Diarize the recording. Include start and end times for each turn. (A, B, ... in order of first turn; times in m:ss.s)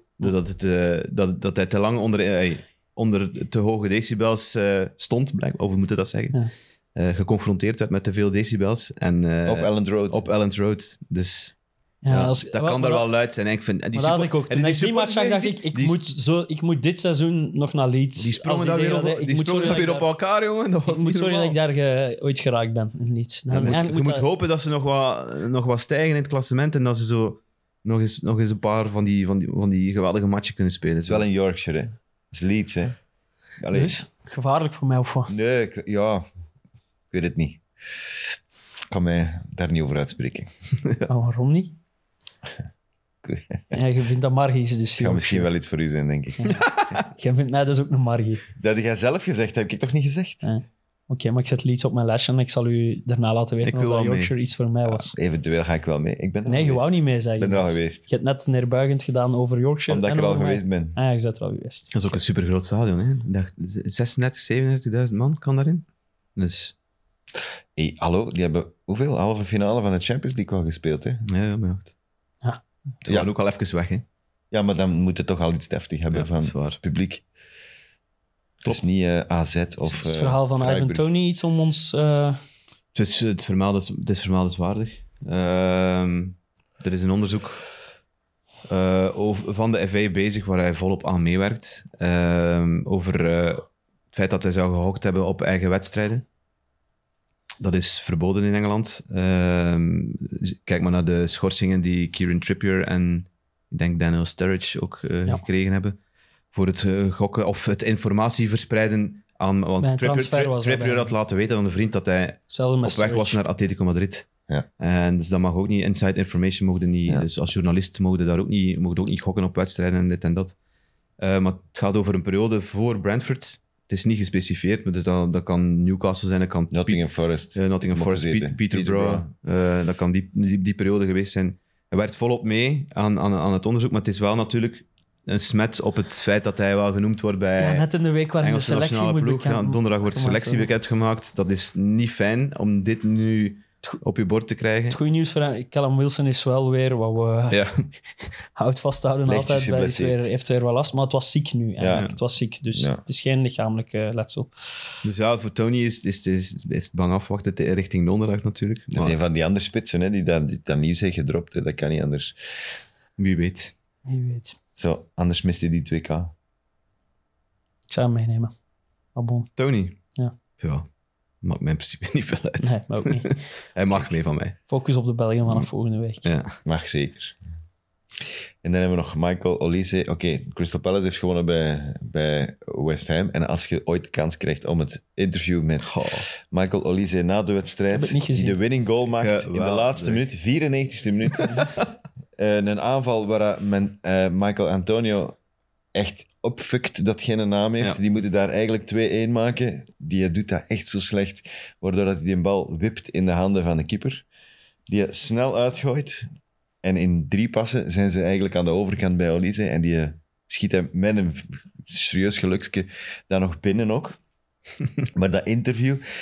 0:00.2-0:06.4 A
0:07.0-0:11.6 A
0:09.4-0:10.3 B
0:12.0-0:13.1 C
0:12.1-0:16.0 A
0:13.9-0:20.1 C
0:18.2-0:21.6 A
0:20.9-0:24.2 C
0:23.5-0:31.2 A
0:31.1-0:33.0 B
0:33.6-0:34.0 B
0:33.7-0:35.3 C
0:35.3-0:36.2 B
0:37.1-0:37.6 B
0:38.9-0:40.5 B
0:41.1-0:41.8 C
0:43.2-0:43.8 B
0:43.7-0:45.5 C
0:45.0-0:46.4 B
0:46.4-0:48.4 C
0:46.4-0:47.0 A
0:48.6-0:50.5 B
0:50.4-0:55.2 C
0:53.6-0:54.3 A
0:54.9-0:58.0 B
0:56.5-1:02.2 C
0:59.9-1:01.0 B
1:01.9-1:06.7 A
1:07.8-1:11.2 B
1:11.3-1:11.9 A
1:13.0-1:14.0 A
1:13.1-1:13.3 B
1:14.5-1:17.2 B
1:16.1-1:16.8 A
1:18.6-1:21.1 B
1:19.9-1:22.4 C
1:22.9-1:27.6 A
1:28.7-1:36.2 A
1:37.6-1:46.0 A
1:46.5-1:54.3 A
1:49.8-1:51.1 C
1:52.5-1:53.4 C
1:54.8-2:00.6 A
2:01.2-2:17.9 A
2:06.7-2:09.3 B
2:17.6-2:20.7 C
2:18.4-2:25.0 A
2:24.9-2:27.6 C
2:27.5-2:27.8 A
2:28.6-2:34.5 C
2:29.3-2:30.2 B
2:31.8-2:32.1 B
2:32.7-2:33.0 B
2:35.0-2:39.2 A
2:38.9-2:42.4 B
2:43.2-2:43.7 A
2:44.1-2:44.6 C
2:44.8-2:46.3 B
2:47.9-2:48.5 C
2:49.2-2:49.5 C
2:49.6-2:50.0 A
2:50.6-2:50.9 A
2:51.4-2:54.6 A
2:52.6-2:53.4 C
2:54.7-2:56.3 C
2:56.2-2:56.6 A
2:56.6-2:57.4 B
2:58.6-3:11.7 B
3:05.8-3:06.3 A
3:07.9-3:08.6 C
3:09.2-3:10.3 A
3:11.3-3:11.9 A
3:12.4-3:15.4 B
3:15.9-3:24.2 B
3:24.9-3:26.3 B
3:26.8-3:34.2 B
3:35.1-3:36.0 B